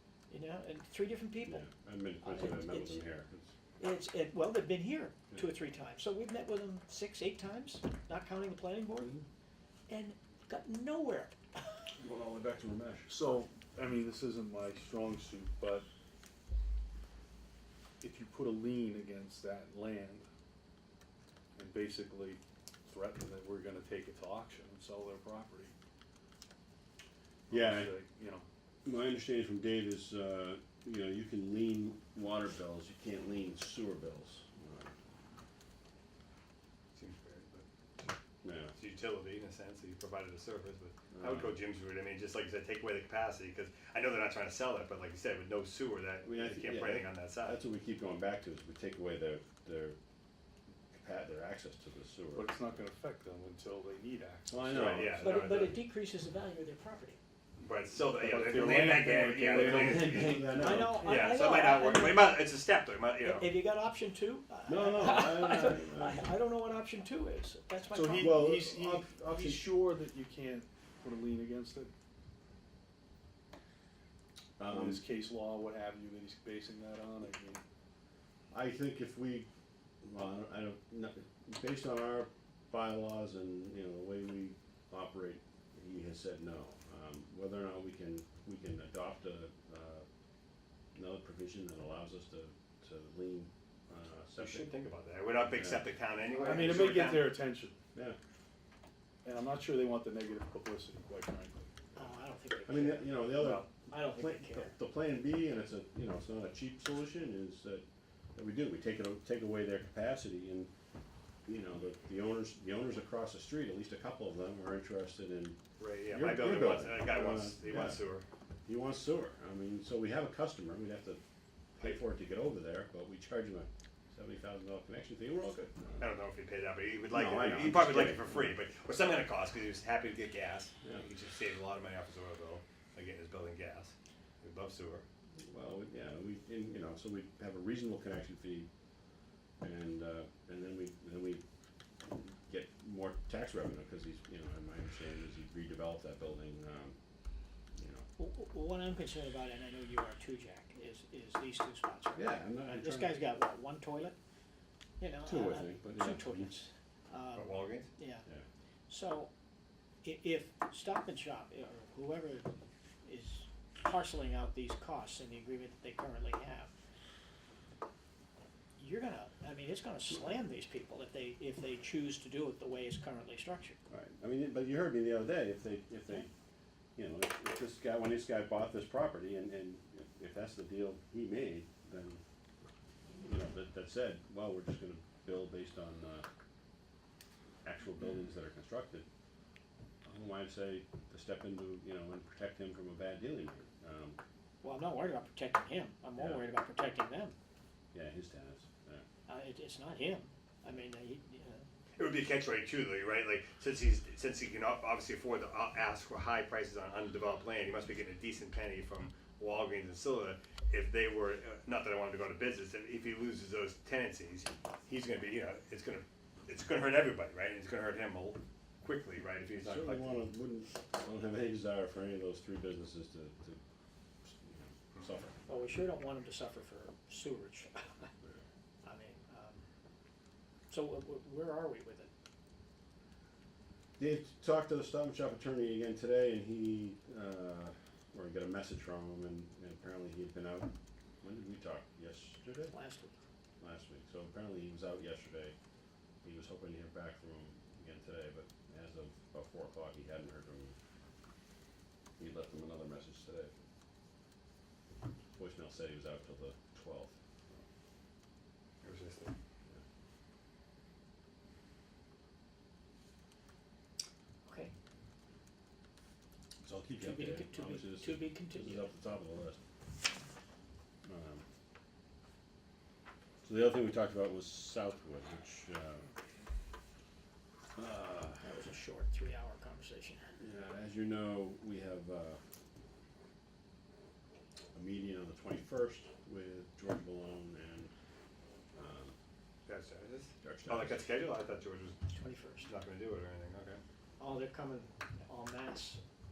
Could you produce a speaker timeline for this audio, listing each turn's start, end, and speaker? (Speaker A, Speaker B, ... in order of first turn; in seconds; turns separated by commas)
Speaker A: 0.3-1.6, Speaker B: 1.4-3.5, Speaker A: 2.2-3.0, Speaker A: 3.8-9.1, Speaker A: 9.9-11.9, Speaker B: 12.0-13.1, Speaker C: 13.1-15.8, Speaker C: 18.0-20.2, Speaker C: 21.6-25.7, Speaker C: 27.5-28.4, Speaker B: 27.5-27.9, Speaker B: 28.8-34.9, Speaker D: 36.9-37.6, Speaker B: 38.4-38.7, Speaker D: 38.8-47.6, Speaker B: 41.1-41.6, Speaker B: 46.2-50.0, Speaker B: 50.9-52.5, Speaker C: 52.3-55.1, Speaker B: 54.5-55.4, Speaker D: 54.6-55.8, Speaker A: 55.2-57.2, Speaker D: 57.6-60.4, Speaker C: 58.1-61.3, Speaker B: 59.5-61.0, Speaker A: 60.5-62.4, Speaker D: 61.0-63.6, Speaker A: 63.2-68.4, Speaker B: 64.7-66.3, Speaker C: 67.9-71.9, Speaker B: 68.1-69.7, Speaker B: 74.6-75.0, Speaker C: 74.6-77.6, Speaker B: 78.5-79.5, Speaker B: 80.0-90.0, Speaker B: 90.9-94.7, Speaker D: 94.4-97.3, Speaker B: 95.5-95.8, Speaker C: 96.3-97.8, Speaker C: 99.2-101.7, Speaker A: 101.9-104.7, Speaker B: 102.7-110.7, Speaker C: 103.4-103.6, Speaker B: 111.5-118.0, Speaker D: 115.8-118.2, Speaker B: 118.7-121.2, Speaker B: 121.8-126.1, Speaker D: 126.0-135.0, Speaker B: 127.1-128.6, Speaker B: 130.8-131.1, Speaker B: 135.4-138.7, Speaker B: 139.6-141.4, Speaker B: 142.0-146.9, Speaker B: 147.8-148.0, Speaker A: 148.2-154.1, Speaker B: 152.2-153.2, Speaker A: 155.0-158.2, Speaker B: 155.2-156.6, Speaker D: 157.3-157.9, Speaker A: 158.9-159.3, Speaker A: 160.0-162.5, Speaker A: 163.0-166.7, Speaker A: 168.8-173.8, Speaker B: 173.9-176.3, Speaker B: 176.9-182.2, Speaker B: 183.2-186.2, Speaker B: 187.6-189.1, Speaker B: 190.0-194.2, Speaker A: 194.6-197.3, Speaker B: 196.2-196.4, Speaker B: 197.9-199.0, Speaker A: 199.3-201.7, Speaker D: 201.9-220.2, Speaker B: 219.6-223.6, Speaker B: 224.2-225.3, Speaker A: 225.5-228.1, Speaker A: 228.8-229.7, Speaker A: 230.7-232.1, Speaker B: 234.0-240.7, Speaker B: 241.2-242.7, Speaker A: 242.7-243.2, Speaker B: 243.6-245.5, Speaker B: 246.2-250.8, Speaker B: 252.2-253.5, Speaker B: 255.3-257.6, Speaker D: 258.8-259.3, Speaker A: 264.4-264.7, Speaker B: 266.6-269.6, Speaker A: 267.0-268.9, Speaker B: 271.0-271.4, Speaker B: 273.4-276.0, Speaker B: 277.8-278.5, Speaker A: 278.4-280.3, Speaker B: 280.4-282.4, Speaker B: 284.7-287.9, Speaker B: 288.7-289.1, Speaker D: 289.6-292.0, Speaker B: 290.4-291.0, Speaker A: 292.1-292.7, Speaker D: 292.6-293.8, Speaker A: 294.2-296.0